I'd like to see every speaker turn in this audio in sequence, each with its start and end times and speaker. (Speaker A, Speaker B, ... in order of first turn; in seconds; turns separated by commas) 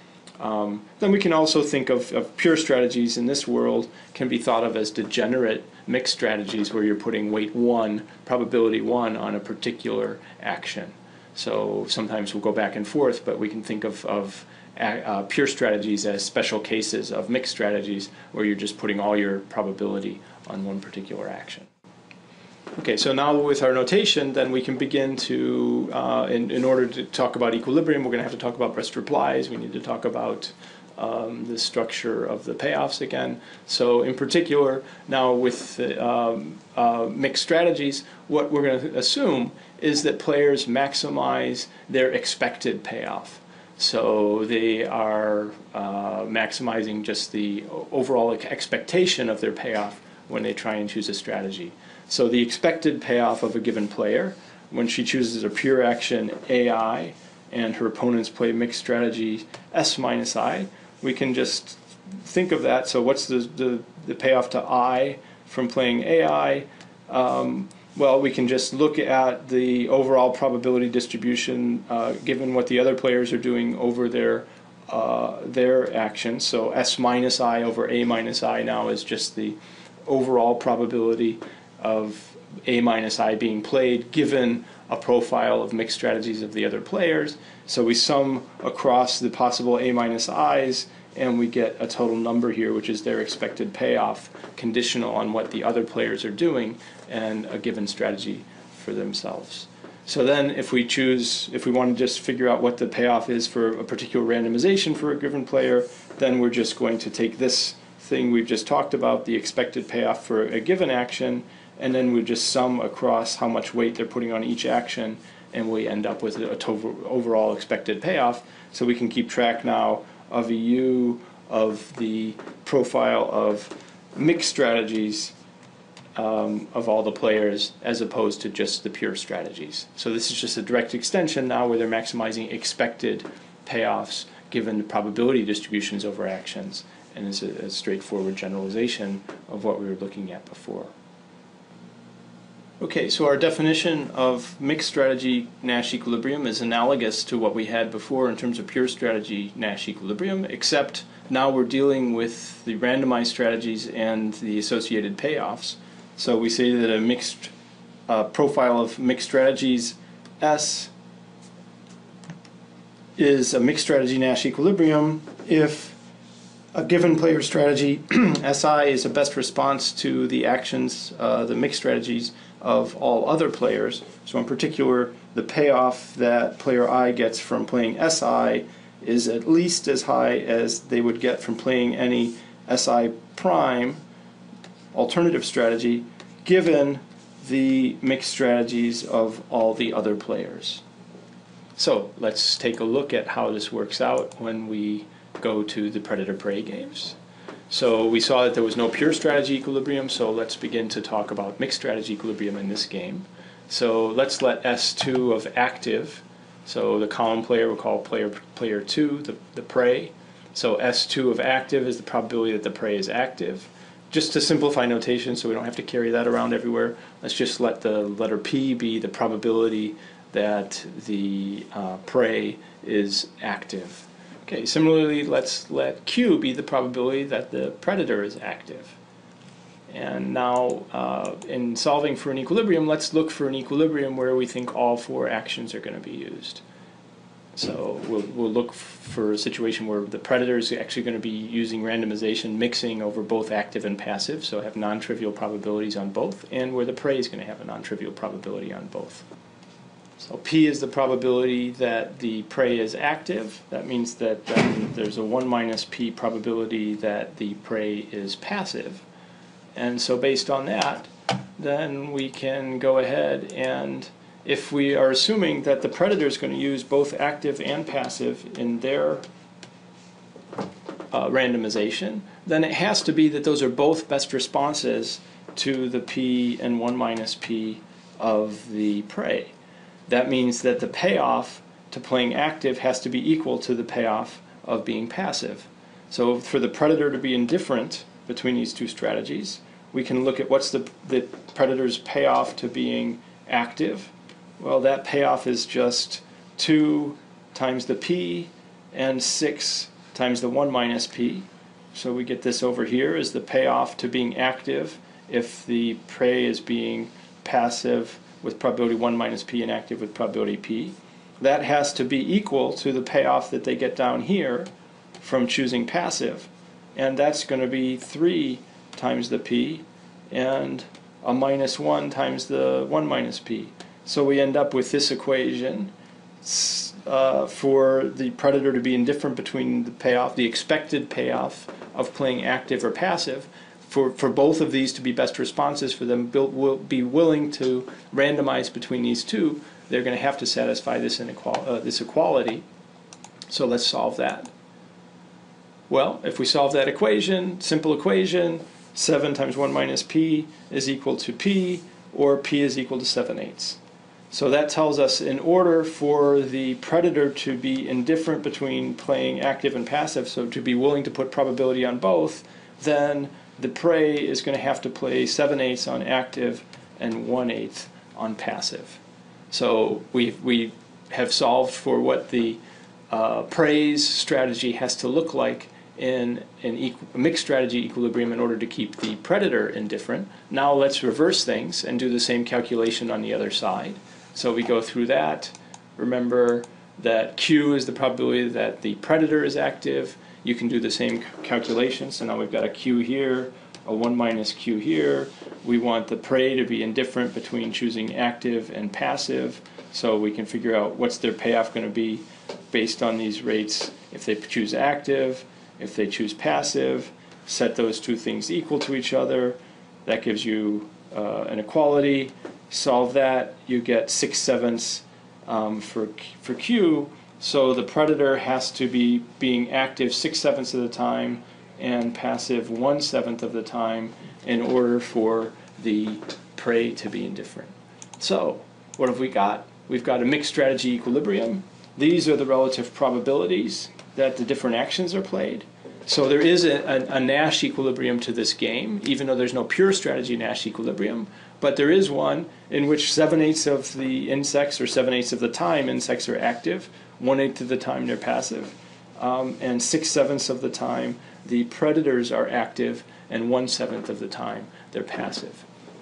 Speaker A: 0.4-21.7, Speaker A: 22.8-125.3, Speaker A: 126.2-140.9, Speaker A: 142.8-157.5, Speaker A: 158.1-160.9, Speaker A: 163.2-166.0, Speaker A: 166.7-184.0, Speaker A: 184.9-190.8, Speaker A: 191.8-197.2, Speaker A: 197.7-229.0, Speaker A: 229.9-236.6, Speaker A: 237.6-249.2, Speaker A: 250.2-259.0, Speaker A: 259.8-269.2, Speaker A: 271.1-279.5, Speaker A: 280.1-314.7, Speaker A: 315.2-325.9, Speaker A: 326.4-342.6, Speaker A: 343.5-344.5, Speaker A: 345.9-353.8, Speaker A: 354.3-369.0, Speaker A: 369.5-372.6, Speaker A: 373.1-455.6